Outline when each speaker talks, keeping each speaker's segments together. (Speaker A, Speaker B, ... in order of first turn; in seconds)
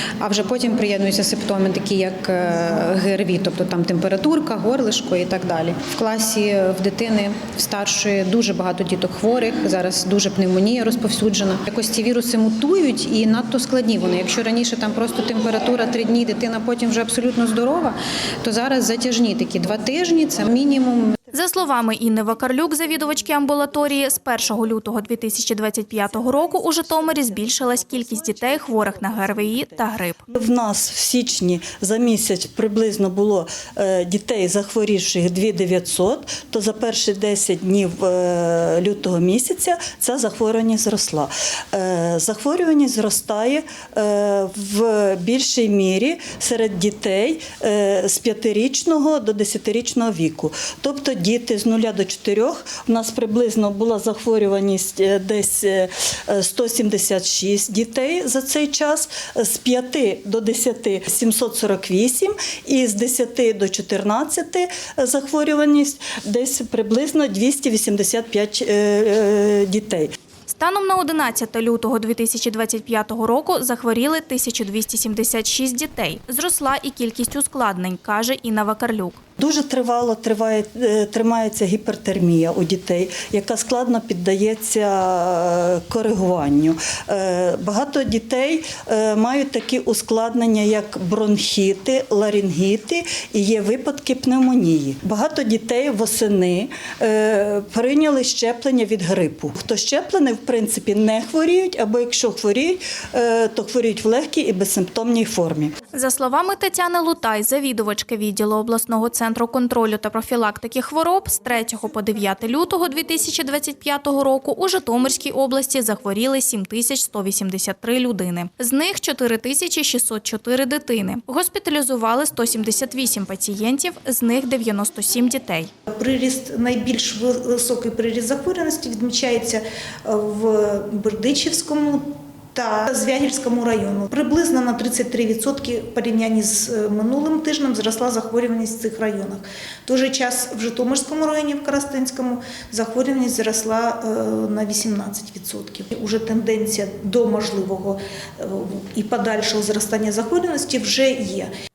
Speaker A: 0.2-21.2
Speaker B: 21.3-30.3, 70.5-79.2, 105.9-125.7
Speaker C: 30.3-70.1, 79.4-105.7
Speaker D: 125.9-151.5